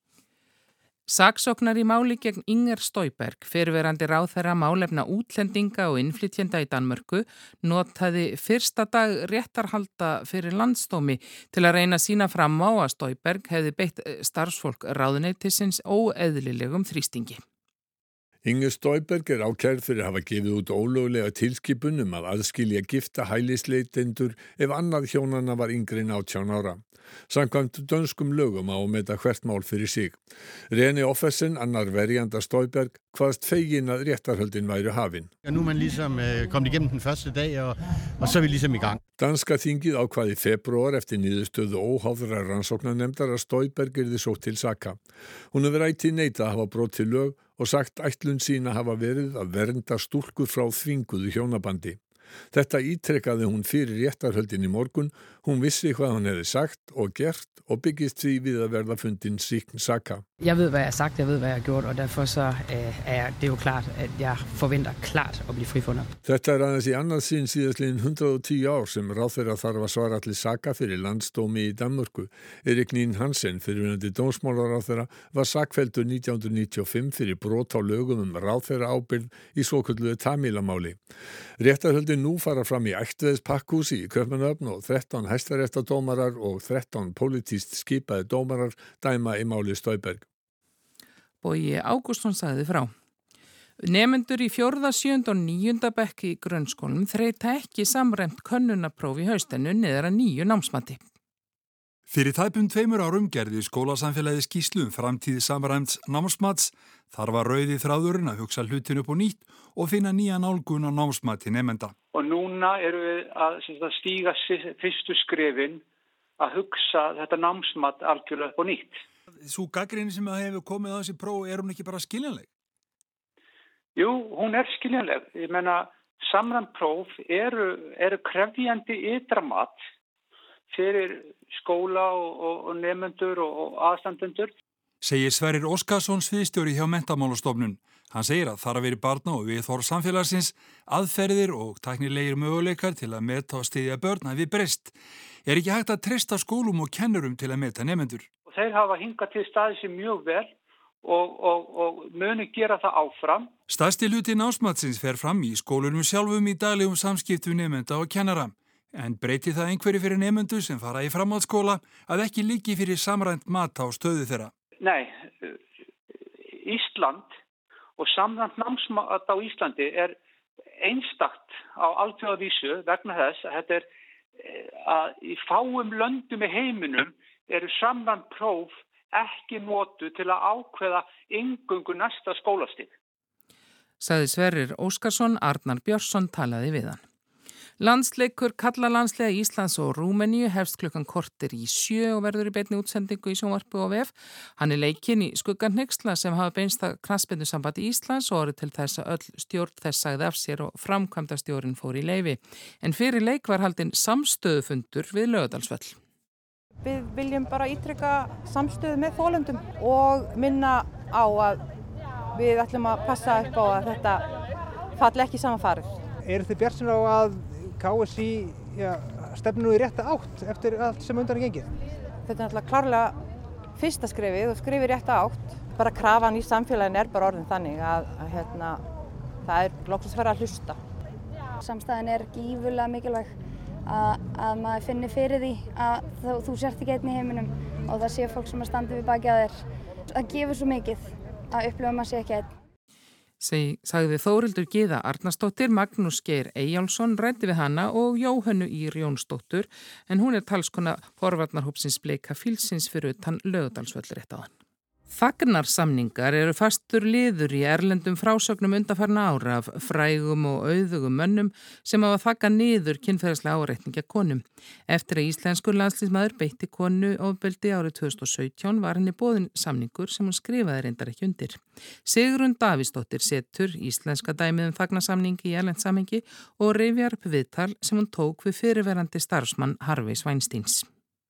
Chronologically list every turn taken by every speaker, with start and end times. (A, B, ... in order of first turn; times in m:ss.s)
0:01.1-0:17.4 A
0:18.4-0:35.3 B
0:35.4-0:39.0 C
0:39.2-0:52.0 B
0:52.5-1:00.2 B
1:00.4-1:06.1 D
1:06.2-1:21.0 B
1:21.6-1:30.2 B
1:31.4-1:32.9 A
1:33.8-1:41.0 A
1:42.1-1:51.9 E
1:52.1-1:55.8 F
1:56.4-1:59.0 F
1:59.4-2:02.5 E
2:04.0-2:09.8 F
2:10.7-2:14.5 F
2:15.0-2:24.9 E
2:25.4-2:28.3 E
2:28.5-2:33.5 F
2:33.7-2:44.5 E
2:44.8-2:45.6 F
2:46.5-2:47.3 F
2:48.0-2:50.2 F
2:50.8-2:53.9 F
2:54.4-3:02.9 F
3:04.0-3:07.0 A
3:07.8-3:26.0 A
3:26.8-3:31.6 G
3:32.3-3:34.3 G
3:34.9-3:36.0 G
3:36.2-3:41.7 H
3:42.2-3:43.2 G
3:43.8-3:48.8 G
3:49.4-3:50.8 G
3:51.6-3:53.4 I
3:53.9-3:59.6 I
4:00.1-4:02.5 I
4:03.4-4:14.5 A
4:15.1-4:40.8 A